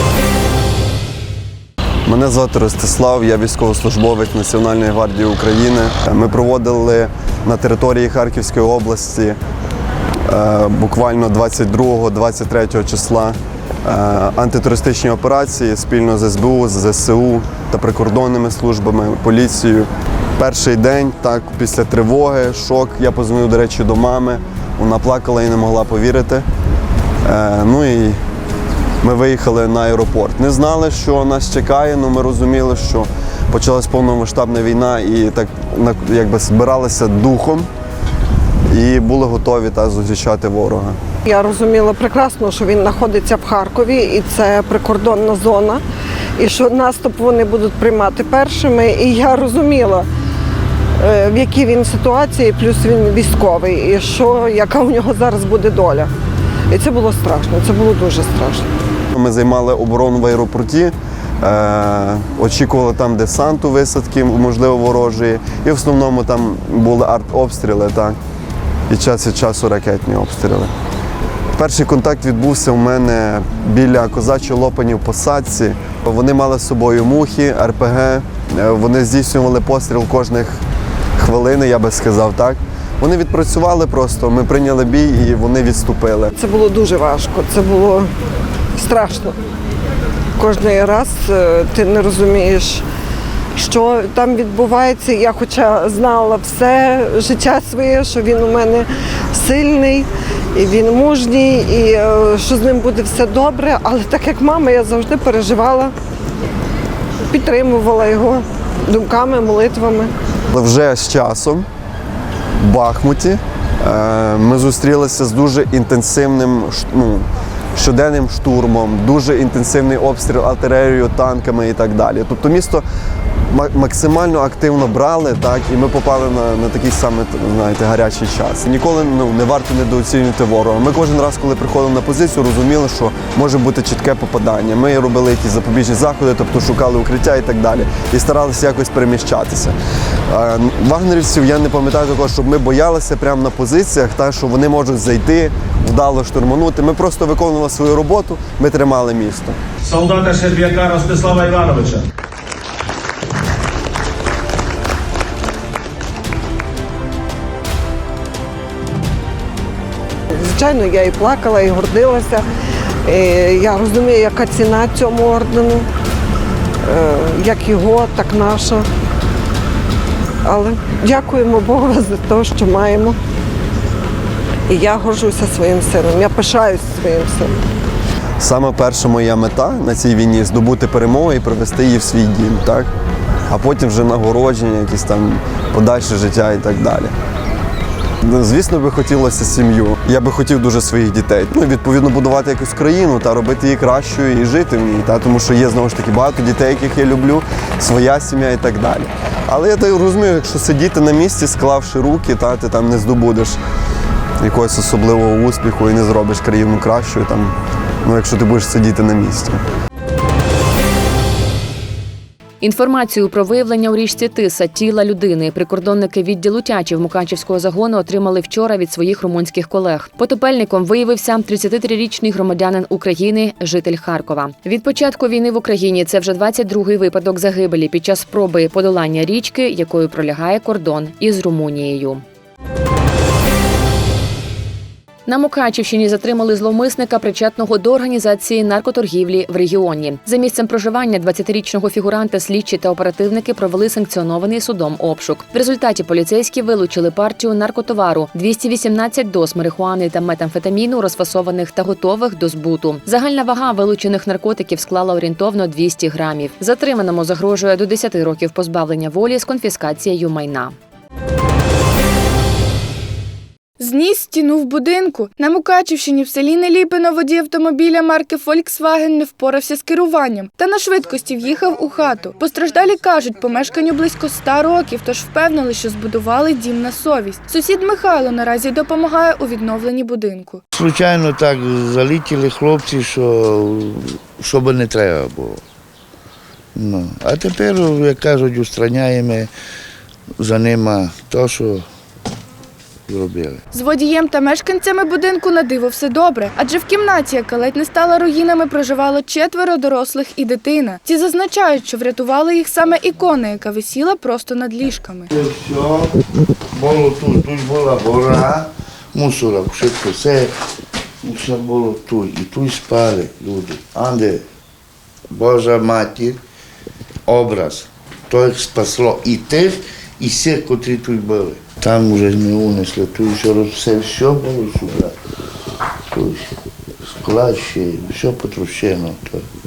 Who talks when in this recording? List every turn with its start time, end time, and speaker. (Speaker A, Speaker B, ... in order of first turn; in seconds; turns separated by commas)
Speaker A: 2.1-9.4, Speaker A: 10.3-13.3, Speaker A: 13.8-26.4, Speaker A: 27.2-28.2, Speaker A: 29.0-37.7, Speaker A: 38.7-41.0, Speaker B: 41.3-45.8, Speaker B: 46.4-50.1, Speaker B: 51.0-56.1, Speaker B: 56.7-58.7, Speaker A: 59.1-68.2, Speaker A: 68.9-70.7, Speaker A: 71.6-80.6, Speaker A: 81.2-86.3, Speaker B: 86.3-88.1, Speaker B: 88.8-89.3, Speaker B: 90.4-92.8, Speaker B: 93.5-105.9, Speaker B: 107.3-110.1, Speaker A: 110.5-111.7, Speaker A: 112.6-122.8, Speaker A: 123.5-139.7, Speaker A: 140.3-149.6, Speaker C: 149.8-152.0, Speaker B: 160.4-162.4, Speaker B: 163.1-165.8, Speaker B: 166.9-168.8, Speaker B: 170.4-173.2, Speaker B: 174.7-177.6, Speaker A: 178.4-182.9, Speaker A: 183.5-187.1, Speaker A: 188.2-203.6, Speaker A: 204.4-209.6, Speaker D: 212.6-232.2, Speaker D: 235.3-260.7, Speaker E: 263.8-280.6, Speaker F: 280.7-285.6, Speaker F: 286.8-289.5, Speaker F: 290.4-291.8, Speaker F: 293.1-293.6, Speaker E: 293.7-305.3, Speaker F: 305.3-306.1, Speaker F: 306.7-310.5, Speaker F: 311.2-314.4, Speaker F: 315.3-316.4, Speaker F: 317.3-325.1, Speaker F: 326.1-326.5, Speaker F: 327.0-329.4